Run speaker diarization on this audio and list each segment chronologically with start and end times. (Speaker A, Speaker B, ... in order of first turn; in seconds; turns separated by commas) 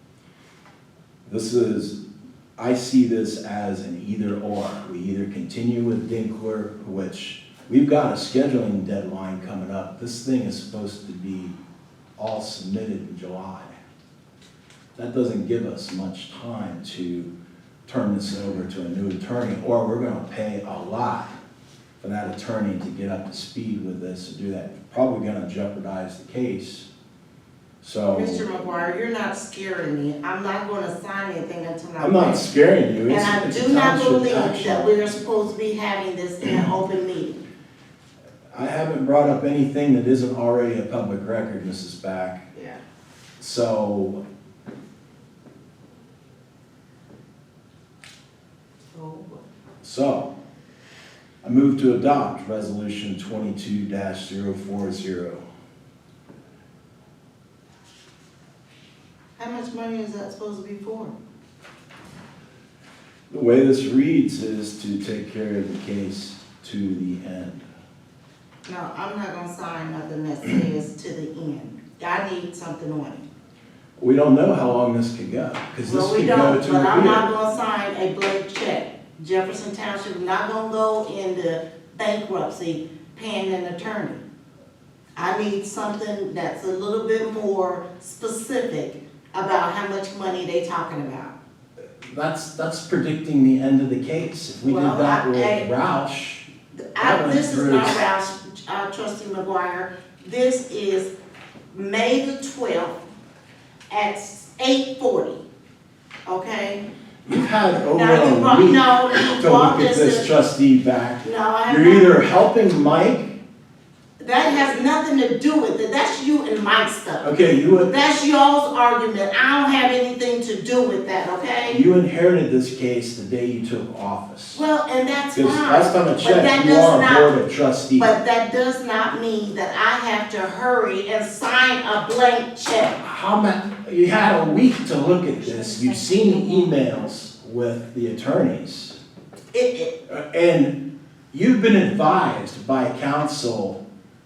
Speaker A: 1.2-2.0, Speaker A: 2.6-11.6, Speaker A: 12.2-13.7, Speaker A: 14.9-17.3, Speaker A: 17.9-21.3, Speaker A: 22.0-26.9, Speaker A: 27.8-28.4, Speaker B: 28.1-32.5, Speaker A: 32.0-34.9, Speaker B: 33.1-37.4, Speaker A: 38.5-42.5, Speaker B: 42.5-42.8, Speaker A: 43.4-44.2, Speaker B: 48.9-49.4, Speaker A: 49.8-50.3, Speaker A: 51.4-55.4, Speaker B: 59.4-61.1, Speaker A: 63.3-67.6, Speaker B: 68.7-73.2, Speaker A: 74.0-77.3, Speaker B: 75.8-84.2, Speaker B: 85.2-91.3, Speaker A: 92.0-96.5, Speaker B: 94.6-95.7, Speaker B: 96.7-101.1, Speaker A: 97.0-98.0, Speaker B: 101.7-103.0, Speaker B: 103.9-105.4, Speaker B: 106.2-106.8, Speaker A: 107.2-113.4, Speaker B: 107.9-110.3, Speaker B: 111.2-112.2, Speaker B: 114.2-121.8, Speaker A: 117.2-117.9, Speaker A: 121.7-124.6, Speaker B: 124.5-127.3, Speaker A: 125.3-128.1, Speaker B: 128.0-133.0, Speaker A: 133.0-139.0, Speaker B: 135.5-136.7, Speaker B: 139.5-139.9, Speaker A: 140.1-140.8, Speaker A: 141.3-143.8